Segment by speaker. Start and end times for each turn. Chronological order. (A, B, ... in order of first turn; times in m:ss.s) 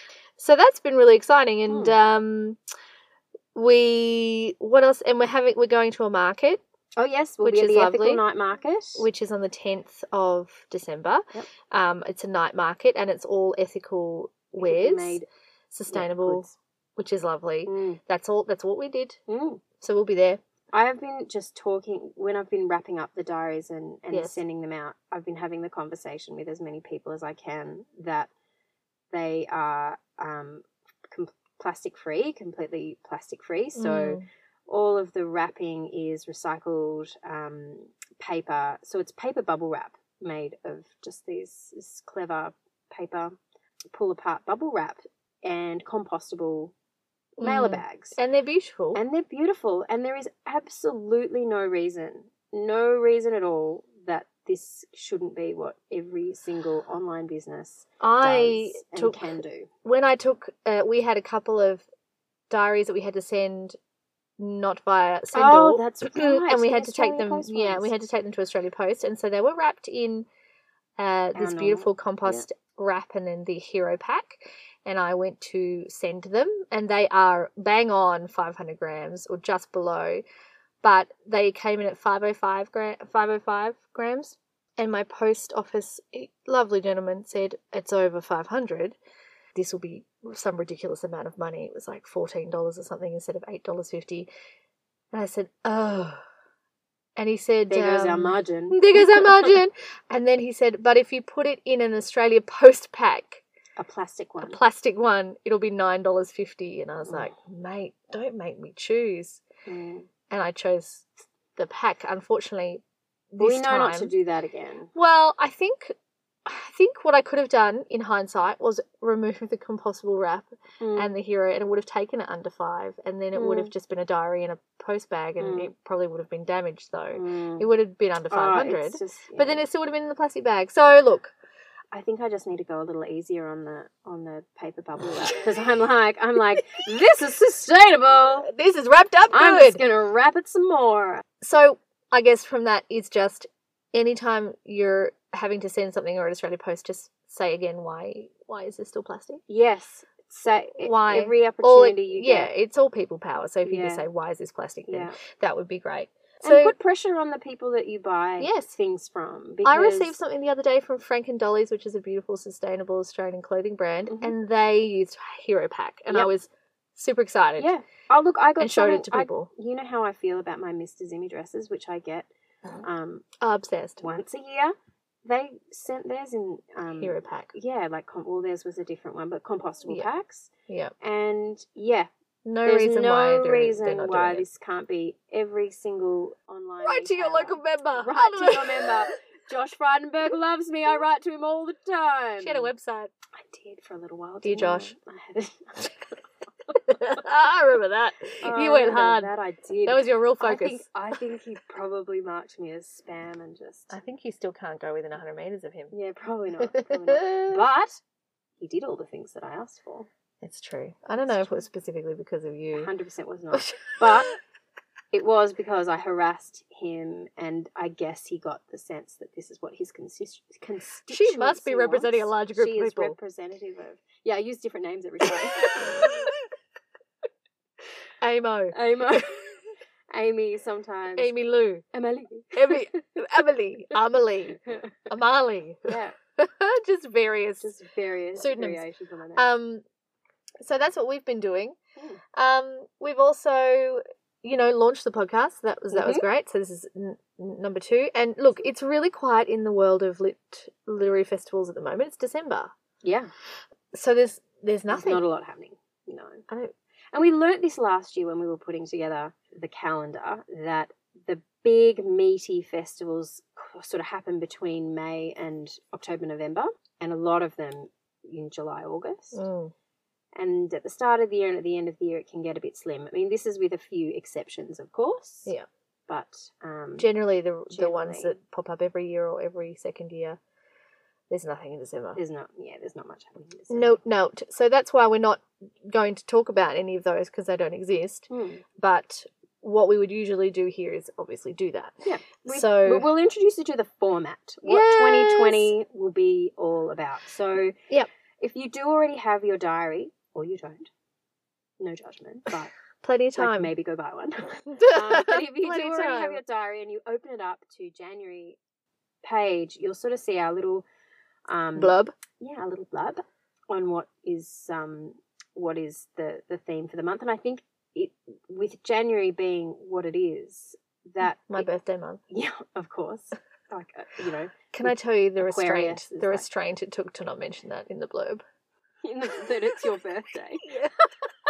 0:00.4-0:02.6 A
0:01.7-0:02.0 B
0:03.6-0:06.6 A
0:07.0-0:09.1 B
0:07.4-0:08.2 A
0:09.0-0:19.2 A
0:14.6-0:15.3 B
0:15.9-0:16.6 B
0:17.7-0:18.0 B
0:19.3-0:19.6 B
0:19.8-0:20.4 A
0:20.7-0:28.3 B
0:24.1-0:24.4 A
0:29.1-0:43.4 B
0:33.8-0:34.3 A
0:43.9-0:46.7 B
0:47.4-0:49.0 A
0:47.4-0:48.2 B
0:49.0-0:59.7 B
0:58.0-1:01.9 A
1:02.5-1:03.8 A
1:04.4-1:10.3 A
1:05.3-1:07.9 B
1:11.0-1:20.2 A
1:11.4-1:12.4 B
1:20.8-1:29.0 A
1:29.6-1:34.3 A
1:35.1-1:36.2 A
1:37.2-1:43.4 A
1:37.7-1:39.5 B
1:43.8-1:44.6 B
1:44.4-1:49.4 A
1:47.0-1:47.3 B
1:49.7-1:50.1 B
1:50.3-1:52.8 A
1:53.3-1:54.1 A
1:53.4-1:54.9 B
1:54.9-2:11.3 A
2:00.8-2:01.1 B
2:03.4-2:03.7 B
2:05.4-2:05.7 B
2:07.1-2:07.7 B
2:08.3-2:09.6 B
2:11.9-2:18.5 B
2:16.5-2:16.8 A
2:18.5-2:19.8 A
2:19.3-2:21.2 B
2:21.4-2:29.4 A
2:29.5-2:32.5 B
2:30.8-2:36.7 A
2:33.6-2:34.1 B
2:34.9-2:35.2 B
2:36.4-2:40.2 B
2:38.4-2:38.7 A
2:39.6-2:47.7 A
2:44.1-2:44.4 B
2:47.6-2:52.3 B
2:48.6-2:49.5 A
2:52.8-2:53.3 B
2:53.4-2:54.1 A
2:54.0-2:54.7 B
2:55.2-3:02.1 B
2:57.0-2:57.5 A
3:00.7-3:00.9 A
3:02.5-3:04.4 A
3:02.6-3:12.7 B
3:06.8-3:08.9 A
3:12.4-3:13.1 A
3:13.4-3:16.2 B
3:14.4-3:14.9 A
3:16.8-3:19.3 A
3:18.4-3:24.0 B
3:19.8-3:21.2 A
3:23.9-3:25.9 A
3:25.9-3:28.0 B
3:26.6-3:27.6 A
3:28.6-3:30.1 B
3:30.4-3:32.9 A
3:31.2-3:31.6 B
3:32.7-3:34.4 B
3:33.5-3:34.2 A
3:35.1-3:46.3 B
3:41.1-3:43.2 A
3:45.6-3:46.4 A
3:48.2-3:49.2 A
3:48.7-3:49.5 B
3:50.1-3:51.3 B
3:51.2-3:51.9 A
3:51.9-3:53.0 B
3:52.5-3:57.7 A
3:55.9-3:56.2 B
3:57.6-3:59.5 B
3:58.4-3:59.8 A
4:00.6-4:01.8 A
4:02.3-4:12.7 A
4:05.9-4:06.2 B
4:13.0-4:13.3 B
4:13.9-4:15.2 A
4:14.9-4:16.4 B
4:17.1-4:29.4 B
4:29.3-4:29.7 A
4:30.4-4:35.5 B
4:36.1-4:37.2 B
4:37.0-4:40.4 A
4:37.7-4:38.4 B
4:41.3-4:42.2 A
4:42.2-4:44.0 B
4:43.7-4:53.1 A
4:48.3-4:48.6 B
4:52.0-4:57.8 B
4:54.6-4:55.7 A
4:58.4-5:00.9 B
5:01.8-5:02.8 B
5:03.0-5:03.7 A
5:03.4-5:08.6 B
5:04.7-5:06.4 A
5:09.2-5:10.8 B
5:11.5-5:21.7 B
5:11.8-5:12.2 A
5:21.3-5:22.2 A
5:22.3-5:26.5 B
5:24.7-5:28.4 A
5:29.0-5:30.6 B
5:30.6-5:31.1 A